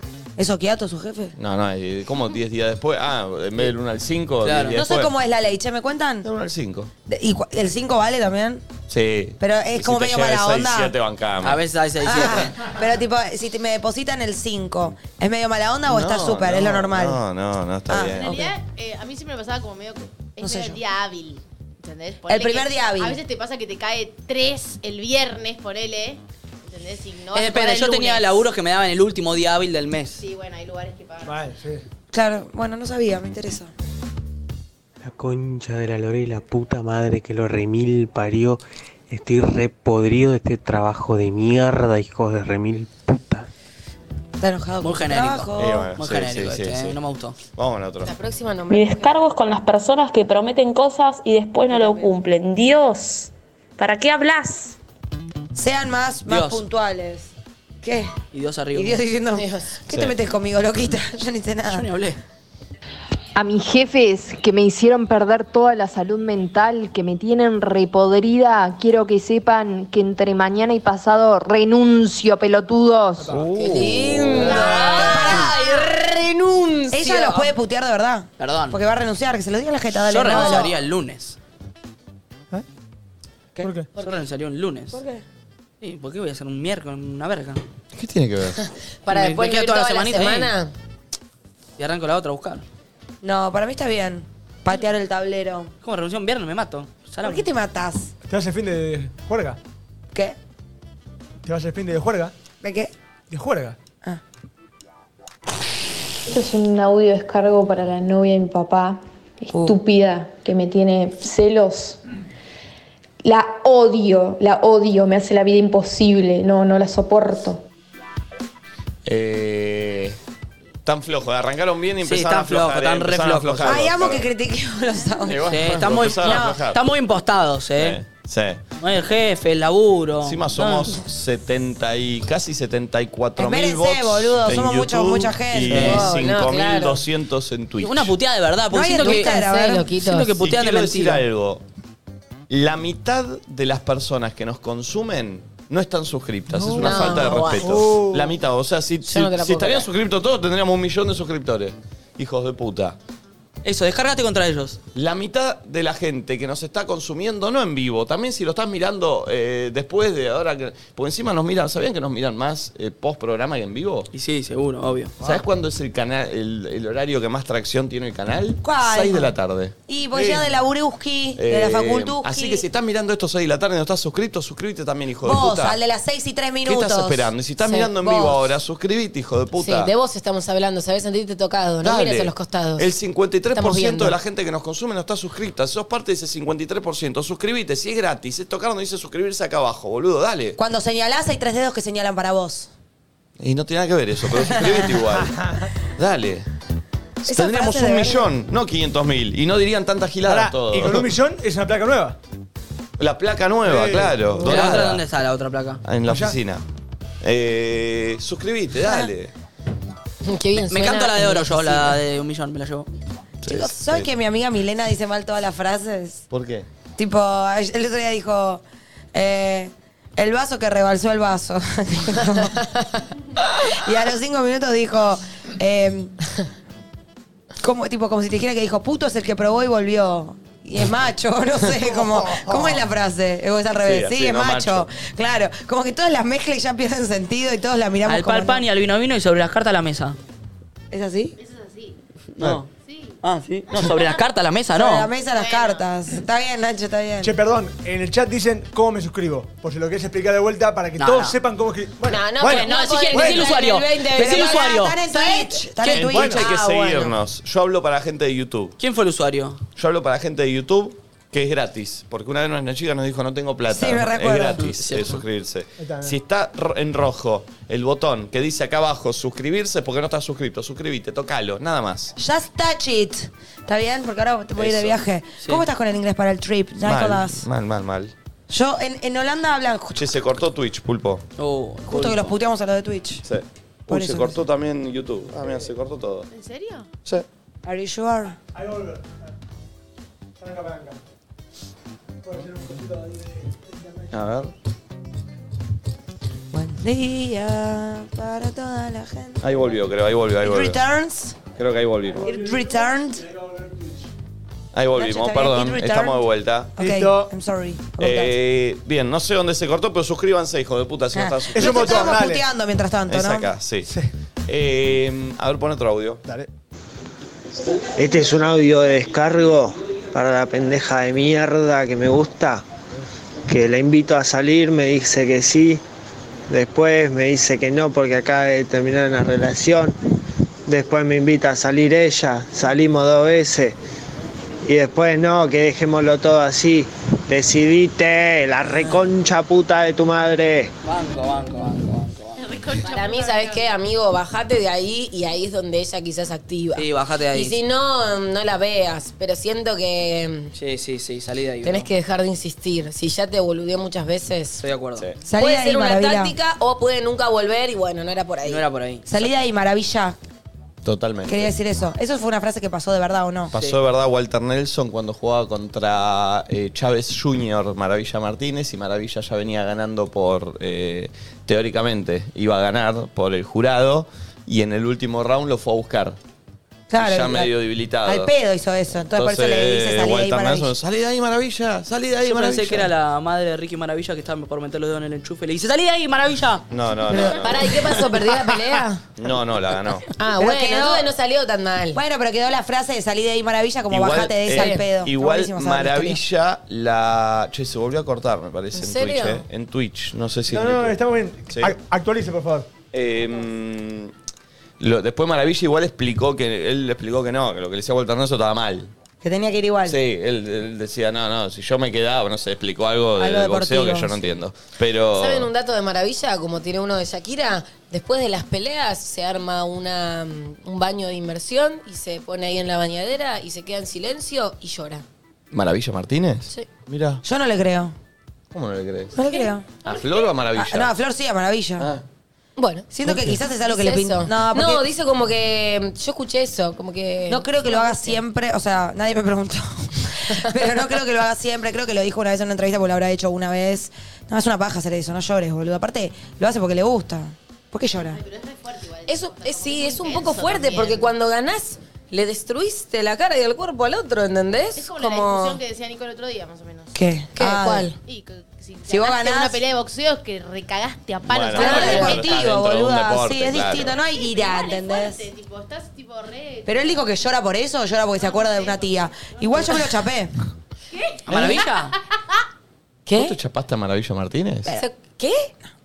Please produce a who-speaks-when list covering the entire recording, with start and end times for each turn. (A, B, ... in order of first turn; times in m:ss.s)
0:00.4-0:01.3 A
0:01.4-0:05.1 B
0:04.4-0:04.8 C
0:04.7-0:06.3 A
0:06.2-0:06.9 B
0:07.1-0:08.6 A
0:08.9-0:11.6 B
0:09.4-0:10.9 A
0:11.4-0:12.6 C
0:12.0-0:17.2 A
0:15.9-0:18.3 B
0:17.9-0:18.5 A
0:18.1-0:28.4 D
0:20.4-0:20.8 A
0:22.3-0:23.2 A
0:27.3-0:30.2 C
0:30.2-0:31.5 D
0:31.2-0:31.8 E
0:32.1-0:33.7 A
0:35.0-0:43.5 F
0:44.4-0:45.9 A
0:44.8-0:47.4 C
0:45.6-0:47.0 B
0:47.6-0:48.1 B
0:48.0-0:49.2 G
0:48.7-0:54.8 H
0:51.7-0:52.1 A
0:55.5-0:58.1 A
0:56.3-0:56.6 C
0:58.3-0:59.0 C
0:58.7-1:01.9 A
0:59.3-0:59.7 G
1:01.7-1:02.2 C
1:03.3-1:13.3 I
1:13.2-1:13.5 E
1:13.3-1:14.6 B
1:13.5-1:17.5 G
1:14.3-1:14.9 E
1:14.5-1:15.7 A
1:16.9-1:20.7 A
1:18.4-1:18.8 C
1:20.0-1:21.4 C
1:23.6-1:23.9 E
1:24.0-1:25.0 C
1:24.9-1:25.2 A
1:25.8-1:27.6 C
1:27.9-1:28.6 B
1:28.6-1:30.7 G
1:29.1-1:30.5 C
1:31.8-1:32.6 C
1:33.2-1:35.7 A
1:35.8-1:37.5 C
1:37.2-1:38.1 A
1:38.3-1:39.6 E
1:41.4-1:42.3 E
1:42.6-1:42.9 A
1:43.3-1:43.8 E
1:46.3-1:52.0 J
1:49.5-1:49.8 A
1:53.2-1:57.6 J
1:59.0-2:00.2 B
2:00.8-2:04.3 B
2:02.0-2:03.8 C
2:03.6-2:05.7 A
2:05.3-2:06.8 B
2:05.5-2:08.0 C
2:06.2-2:06.6 A
2:07.8-2:08.6 B
2:08.8-2:10.9 C
2:10.2-2:18.1 B
2:13.4-2:16.0 A
2:15.7-2:16.0 C
2:15.7-2:17.0 G
2:17.8-2:21.2 C
2:18.7-2:19.8 A
2:19.0-2:20.3 G
2:20.4-2:21.6 B
2:22.5-2:33.0 B
2:26.5-2:28.3 E
2:26.8-2:27.9 G
2:29.0-2:29.9 G
2:33.6-2:34.8 C
2:34.9-2:44.1 B
2:44.1-2:45.1 C
2:45.2-2:49.7 B
2:48.6-2:49.3 A
2:49.9-2:52.7 A
2:50.1-2:50.5 E
2:51.4-2:55.8 B
2:55.2-2:57.3 A
2:56.6-2:59.9 B
2:57.6-2:57.9 G
2:57.9-2:58.4 A
2:59.6-3:02.9 G
3:01.8-3:10.6 B
3:03.5-3:04.1 G
3:10.6-3:12.7 A
3:13.4-3:15.3 B
3:14.5-3:14.8 A
3:15.2-3:15.6 E
3:16.0-3:16.5 B
3:17.2-3:21.1 B
3:17.2-3:18.3 A
3:20.2-3:22.2 E
3:23.0-3:25.0 B
3:23.6-3:24.7 E
3:24.4-3:25.8 C
3:25.8-3:26.6 B
3:26.1-3:26.4 E
3:27.2-3:29.3 B
3:28.8-3:29.1 A
3:30.2-3:32.0 G
3:30.6-3:32.9 C
3:33.4-3:34.1 B
3:33.4-3:36.2 A
3:36.3-3:36.6 B
3:37.0-3:38.6 A
3:39.1-3:42.6 A
3:43.6-3:46.1 A
3:47.6-3:58.6 A
3:53.8-3:54.9 B
3:58.0-4:00.2 C
4:00.9-4:01.3 A
4:01.4-4:02.0 D
4:02.4-4:02.7 C
4:02.8-4:03.2 D
4:03.2-4:05.1 C
4:03.8-4:04.2 D
4:04.7-4:07.3 A
4:05.2-4:05.9 D
4:07.2-4:13.5 E
4:11.0-4:11.4 C
4:12.1-4:15.5 G
4:12.4-4:15.0 C
4:14.1-4:16.4 A
4:15.8-4:16.1 C
4:15.9-4:18.8 B
4:16.0-4:16.4 E
4:16.4-4:16.9 G
4:18.8-4:19.6 C
4:19.8-4:32.1 B
4:23.7-4:24.6 A
4:24.6-4:25.2 C
4:25.8-4:26.1 E
4:32.2-4:37.4 A
4:34.6-4:35.0 B
4:36.8-4:38.1 B
4:38.5-4:40.1 A
4:39.9-4:41.2 B
4:41.4-4:42.3 C
4:41.9-4:43.2 A
4:43.2-4:46.3 B
4:43.9-4:44.4 A
4:46.3-4:46.9 D
4:47.6-4:48.4 A
4:48.5-4:49.2 E
4:50.4-4:51.0 E
4:52.2-4:54.1 E
4:54.1-4:54.5 B
4:56.5-4:59.6 A
4:59.4-5:00.8 B
5:00.4-5:01.4 A
5:01.6-5:02.3 B
5:02.1-5:04.1 E
5:02.2-5:03.2 A
5:04.7-5:06.8 B
5:04.9-5:06.2 A
5:06.8-5:08.3 A
5:06.8-5:07.3 E
5:08.0-5:12.2 B
5:11.1-5:13.5 A
5:11.5-5:12.4 E
5:13.1-5:13.9 B
5:13.8-5:14.1 E
5:14.5-5:16.2 B
5:18.0-5:22.6 K
5:23.5-5:25.8 K
5:26.5-5:30.0 K
5:30.7-5:33.8 K
5:34.6-5:40.7 K
5:40.8-5:42.4 C
5:42.4-5:43.7 D
5:42.8-5:50.5 G
5:46.7-5:47.6 C
5:50.5-5:51.9 C
5:51.6-5:54.6 G
5:54.6-5:55.0 C
5:55.2-5:56.3 A
5:55.4-5:58.6 G
5:58.4-5:59.1 C
5:59.0-6:00.2 A
6:00.8-6:01.5 B
6:01.2-6:03.5 A
6:03.5-6:16.2 B
6:16.9-6:17.5 A
6:16.9-6:18.3 B
6:18.0-6:20.7 A
6:19.1-6:22.9 B
6:22.2-6:26.6 C
6:26.7-6:28.0 B
6:27.1-6:27.4 A
6:27.1-6:29.0 G
6:29.2-6:30.1 B
6:30.2-6:32.0 G
6:30.4-6:31.1 A
6:31.9-6:36.2 A
6:33.9-6:41.0 B
6:34.5-6:34.8 G
6:38.7-6:39.4 G
6:40.5-6:42.7 E
6:41.5-6:41.7 B
6:42.9-6:44.1 B
6:44.8-6:48.9 B
6:49.2-6:50.0 A
6:49.8-6:55.5 B
6:53.2-6:54.2 A
6:55.2-7:05.0 G
7:05.5-7:07.2 B
7:07.2-7:07.9 A
7:08.5-7:09.2 B
7:09.1-7:09.7 A
7:09.2-7:10.4 D
7:09.8-7:10.9 B
7:10.5-7:11.9 A
7:12.6-7:18.2 G
7:12.9-7:14.8 A
7:17.3-7:28.2 A
7:28.0-7:31.1 D
7:29.1-7:35.6 G
7:34.8-7:36.9 D
7:36.9-7:37.9 A
7:37.3-7:38.0 G
7:38.0-7:42.2 D
7:38.9-7:39.6 A
7:41.3-7:44.0 B
7:41.6-7:45.3 A
7:41.6-7:42.2 G
7:43.9-7:47.1 D
7:46.6-7:50.3 A
7:48.1-7:49.8 D
7:50.9-7:51.9 D
7:51.2-7:51.9 C
7:53.0-7:53.4 G
7:53.1-7:54.7 B
7:54.6-7:55.5 G